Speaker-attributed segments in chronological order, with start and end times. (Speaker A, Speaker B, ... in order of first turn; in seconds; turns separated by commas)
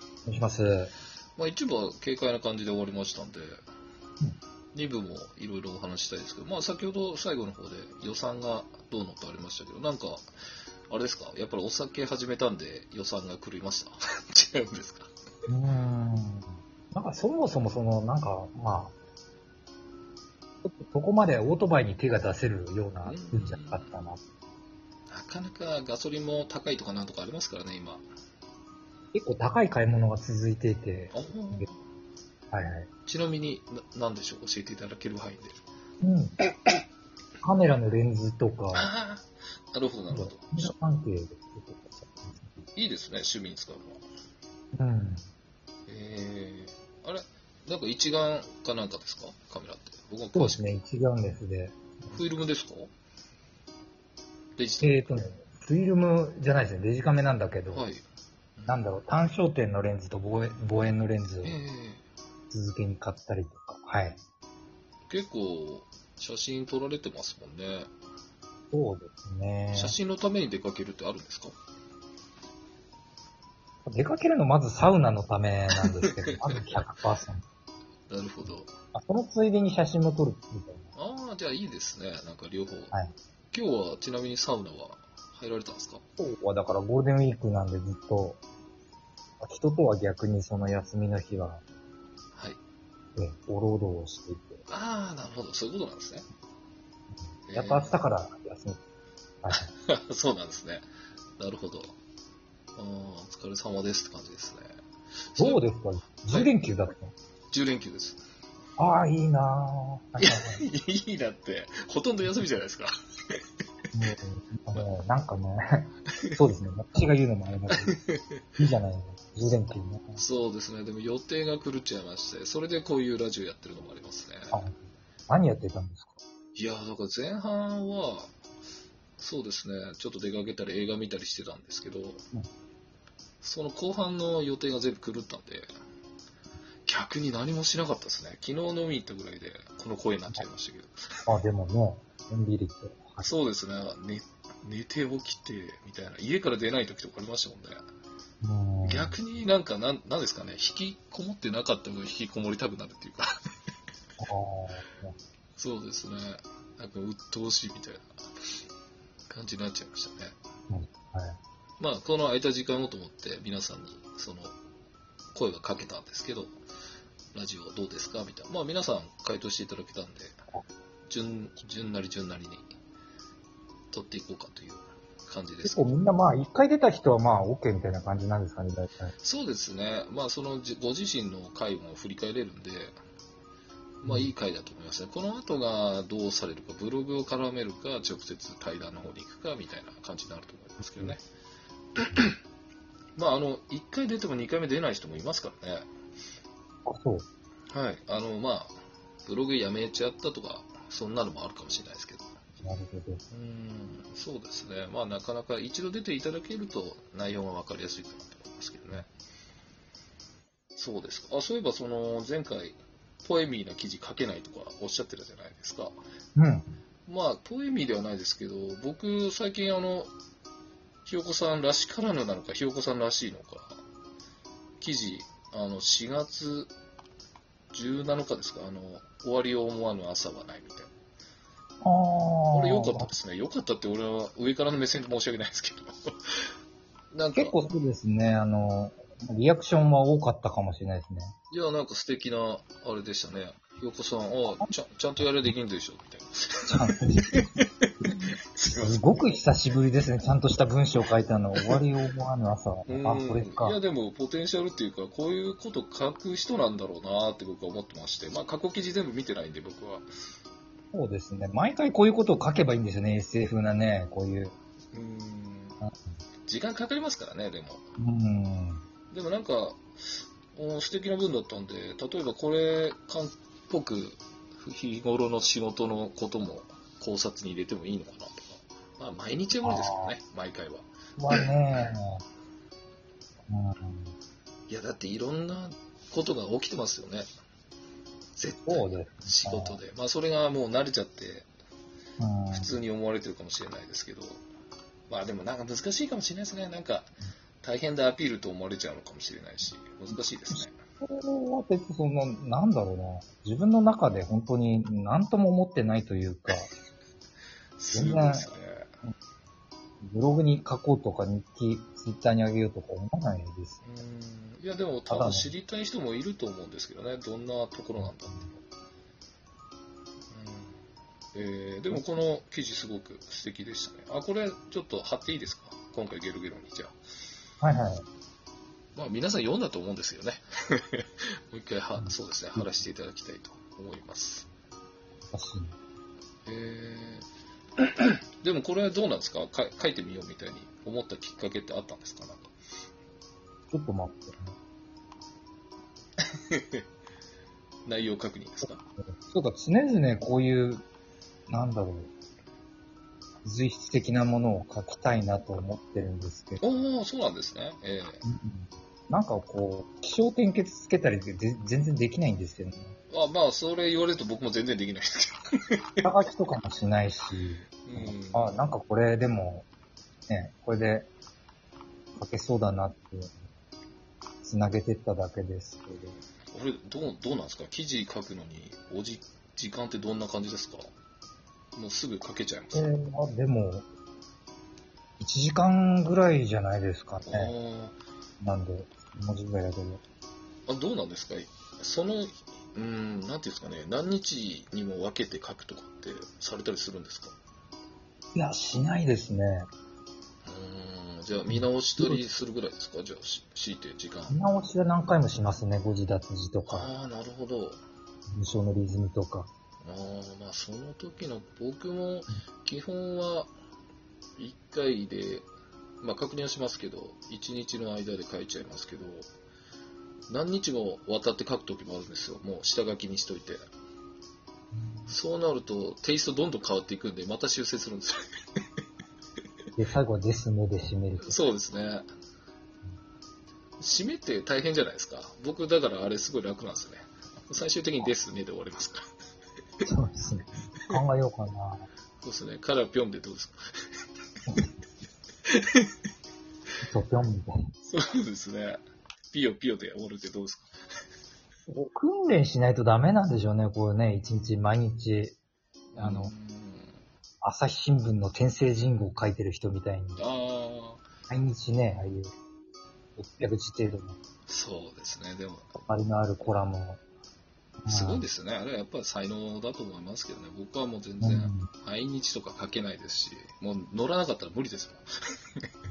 Speaker A: 0.2-0.9, Speaker B: 1.4-3.6, Speaker B: 4.7-10.2, Speaker B: 10.9-15.1, Speaker A: 15.5-18.9, Speaker A: 20.6-24.2, Speaker B: 23.0-23.9, Speaker B: 25.1-28.0, Speaker A: 29.1-31.7, Speaker B: 31.1-31.8, Speaker A: 32.5-32.9, Speaker B: 33.0-35.6, Speaker A: 36.0-36.4, Speaker A: 37.4-38.9, Speaker B: 38.7-40.7, Speaker A: 40.1-42.5, Speaker B: 42.7-44.0, Speaker A: 44.8-45.2, Speaker B: 45.9-50.7, Speaker A: 50.3-52.2, Speaker B: 52.1-52.9, Speaker B: 54.6-55.2, Speaker A: 54.8-57.9, Speaker B: 57.7-58.0, Speaker A: 58.7-61.6, Speaker B: 61.4-62.0, Speaker A: 62.5-64.2, Speaker B: 65.1-67.9, Speaker A: 68.7-70.0, Speaker B: 69.7-71.5, Speaker A: 73.8-77.4, Speaker B: 75.8-76.6, Speaker B: 78.1-78.7, Speaker A: 78.9-80.9, Speaker B: 81.0-82.9, Speaker B: 83.5-86.0, Speaker A: 86.2-88.4, Speaker A: 89.4-91.6, Speaker A: 93.2-94.6, Speaker B: 94.7-96.2, Speaker B: 97.5-98.0, Speaker A: 97.5-98.8, Speaker A: 99.4-99.7, Speaker B: 99.5-100.8, Speaker B: 101.4-101.9, Speaker B: 102.8-104.7, Speaker B: 105.3-105.6, Speaker A: 105.4-107.1, Speaker B: 107.5-108.2, Speaker A: 108.8-110.6, Speaker B: 110.2-113.4, Speaker A: 113.9-118.0, Speaker B: 117.8-118.4, Speaker A: 118.6-120.2, Speaker B: 120.2-124.6, Speaker A: 124.5-126.2, Speaker B: 126.5-128.3, Speaker B: 129.2-132.2, Speaker B: 133.4-135.7, Speaker B: 136.9-141.0, Speaker A: 141.2-143.3, Speaker B: 143.2-147.8, Speaker A: 148.4-149.2, Speaker B: 148.8-153.3, Speaker A: 154.2-155.1, Speaker B: 155.6-158.2, Speaker B: 159.3-160.3, Speaker A: 160.7-161.4, Speaker B: 161.8-164.5, Speaker B: 165.3-166.5, Speaker B: 167.3-170.4, Speaker B: 171.1-172.7, Speaker B: 173.9-175.9, Speaker A: 175.6-179.1, Speaker B: 179.2-183.0, Speaker B: 184.0-191.2, Speaker A: 184.0-184.3, Speaker B: 192.0-192.4, Speaker B: 193.2-195.9, Speaker A: 196.9-197.2, Speaker B: 197.7-202.3, Speaker A: 202.6-203.2, Speaker B: 203.3-209.1, Speaker B: 210.8-215.9, Speaker A: 216.4-216.7, Speaker B: 217.1-220.1, Speaker B: 221.0-223.8, Speaker B: 224.8-226.7, Speaker B: 227.7-230.9, Speaker A: 231.8-233.1, Speaker B: 232.5-236.4, Speaker B: 237.1-237.5, Speaker A: 237.3-241.3, Speaker B: 241.5-249.0, Speaker A: 244.5-245.5, Speaker A: 246.7-253.8, Speaker B: 252.9-260.1, Speaker A: 260.9-264.5, Speaker B: 264.9-265.8, Speaker B: 266.5-267.8, Speaker A: 268.0-268.8, Speaker B: 269.1-269.8, Speaker B: 270.5-281.5, Speaker A: 279.6-280.1, Speaker A: 281.2-282.2, Speaker A: 283.5-284.1, Speaker B: 284.7-287.3, Speaker B: 288.4-291.5, Speaker A: 288.6-289.8, Speaker A: 292.2-292.8, Speaker B: 292.5-294.4, Speaker B: 295.1-297.1, Speaker B: 297.6-300.7, Speaker A: 300.5-306.7, Speaker B: 307.8-308.9, Speaker A: 307.9-308.5, Speaker A: 310.0-313.8, Speaker B: 313.8-318.6, Speaker A: 315.1-315.5, Speaker A: 318.0-318.5, Speaker B: 320.3-320.8, Speaker B: 321.3-326.9, Speaker A: 327.6-328.0, Speaker B: 328.9-334.5, Speaker A: 332.0-332.7, Speaker A: 335.3-335.7, Speaker B: 336.4-337.2, Speaker B: 337.8-342.5, Speaker A: 343.7-344.5, Speaker B: 346.2-346.8, Speaker B: 347.9-348.8, Speaker A: 348.6-350.8, Speaker A: 351.5-352.1, Speaker A: 353.4-356.6, Speaker B: 356.6-358.2, Speaker A: 358.2-362.9, Speaker B: 363.1-365.4, Speaker A: 366.0-369.7, Speaker B: 367.8-368.5, Speaker A: 370.3-371.1, Speaker A: 372.1-373.4, Speaker A: 374.4-376.2, Speaker B: 376.5-380.9, Speaker B: 381.7-382.9, Speaker A: 382.7-383.9, Speaker A: 385.2-387.5, Speaker B: 387.2-388.0, Speaker A: 388.4-390.0, Speaker B: 390.7-397.3, Speaker A: 398.3-399.7, Speaker B: 400.4-404.4, Speaker A: 401.5-402.2, Speaker A: 404.3-406.9, Speaker B: 406.7-407.8, Speaker A: 408.3-409.5, Speaker B: 409.8-413.5, Speaker B: 414.4-415.4, Speaker B: 416.0-419.3, Speaker B: 420.3-423.6, Speaker A: 424.7-425.1, Speaker B: 425.1-428.6, Speaker A: 429.8-431.4, Speaker B: 431.2-432.1, Speaker B: 433.8-439.0, Speaker A: 439.8-441.8, Speaker B: 442.2-443.6, Speaker B: 445.5-445.9, Speaker A: 446.8-447.6, Speaker B: 447.8-450.7, Speaker A: 451.7-455.4, Speaker B: 455.9-456.9, Speaker A: 456.0-456.3, Speaker A: 457.4-460.2, Speaker B: 460.2-461.0, Speaker A: 461.3-462.3, Speaker A: 463.2-464.2, Speaker B: 464.5-465.7, Speaker A: 465.8-467.0, Speaker A: 467.8-468.2, Speaker B: 467.9-475.0, Speaker A: 471.2-471.7